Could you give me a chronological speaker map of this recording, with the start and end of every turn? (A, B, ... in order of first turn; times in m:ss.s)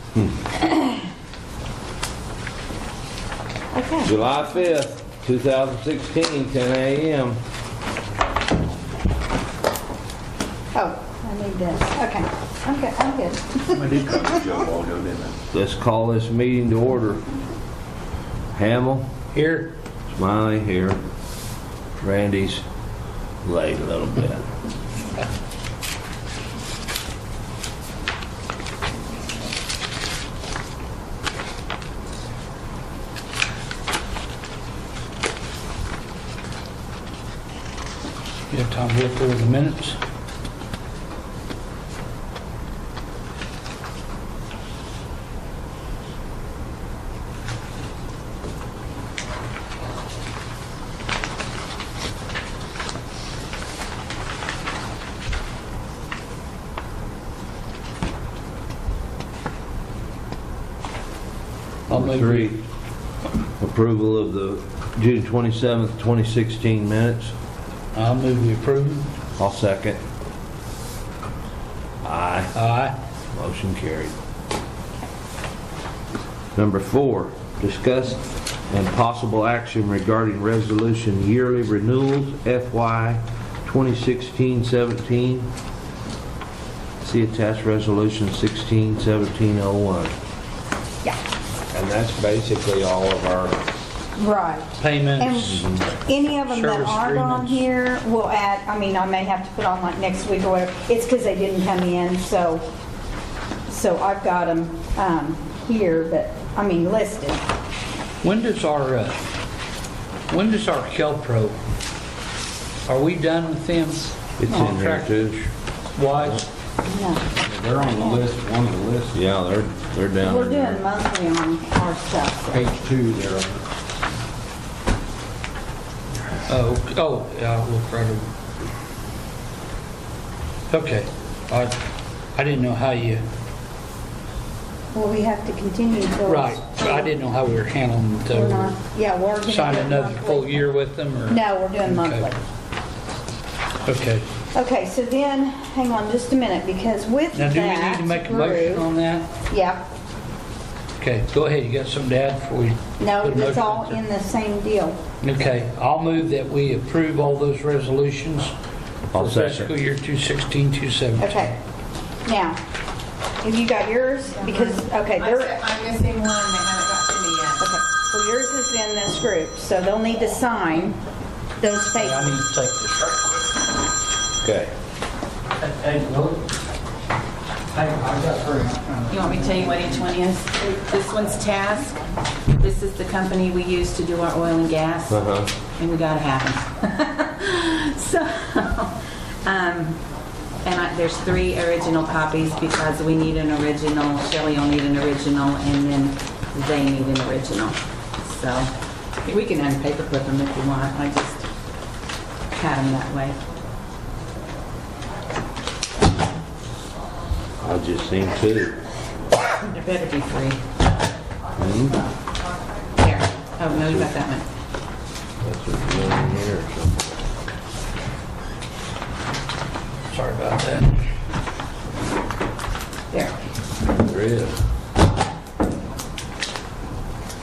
0:03.7-0:04.1 A
0:04.0-0:07.4 B
0:10.7-0:14.5 A
0:13.8-0:15.3 C
0:15.5-0:17.3 B
0:18.5-0:19.1 B
0:19.3-0:19.7 D
0:20.1-0:21.0 B
0:22.0-0:22.6 B
0:23.4-0:24.5 B
0:38.5-0:40.0 D
1:01.9-1:02.6 D
1:01.9-1:02.6 B
1:03.6-1:07.3 B
1:07.9-1:09.1 D
1:09.4-1:10.0 B
1:12.0-1:12.5 B
1:12.5-1:13.0 D
1:13.3-1:14.1 B
1:16.5-1:25.5 B
1:27.0-1:30.1 B
1:31.7-1:33.6 B
1:34.2-1:42.6 A
1:34.8-1:35.7 D
1:35.5-1:35.8 B
1:36.3-1:37.6 D
1:43.7-1:47.4 A
1:48.2-1:49.3 D
1:50.3-1:51.6 D
1:52.9-1:55.1 D
1:54.4-1:55.5 B
1:56.0-1:56.4 D
1:56.8-1:57.2 A
1:57.4-1:59.1 C
1:57.8-1:58.2 A
1:59.1-2:00.8 B
2:00.2-2:02.6 A
2:02.5-2:03.6 C
2:06.5-2:08.2 D
2:10.7-2:11.7 D
2:12.4-2:13.2 D
2:14.9-2:17.1 A
2:16.2-2:18.8 D
2:18.3-2:20.6 A
2:19.4-2:22.3 D
2:21.3-2:22.4 A
2:23.8-2:24.2 D
2:24.5-2:28.9 A
2:27.3-2:29.3 D
2:29.5-2:29.8 A
2:31.0-2:34.0 D
2:33.0-2:35.0 A
2:35.2-2:38.5 D
2:39.1-2:39.7 B
2:39.1-2:41.5 D
2:41.2-2:41.6 A
2:42.2-2:42.6 A
2:43.4-2:45.6 A
2:44.3-2:47.7 E
2:47.6-2:51.0 A
2:51.6-2:52.4 A
2:52.0-2:53.4 D
2:54.4-2:54.7 B
2:55.6-2:56.5 D
2:57.7-3:00.0 D
2:59.1-3:02.0 E
3:02.6-3:05.2 E
3:05.1-3:05.5 B
3:05.8-3:10.0 E
3:10.6-3:18.7 E
3:19.2-3:21.5 E
3:22.5-3:23.4 E
3:27.6-3:28.8 B
3:29.6-3:30.6 E
3:31.6-3:32.0 B
3:33.0-3:34.5 E
3:33.8-3:34.1 B
3:35.4-3:37.0 B
3:40.1-3:41.0 D
3:43.1-3:43.4 E
3:43.9-3:44.6 B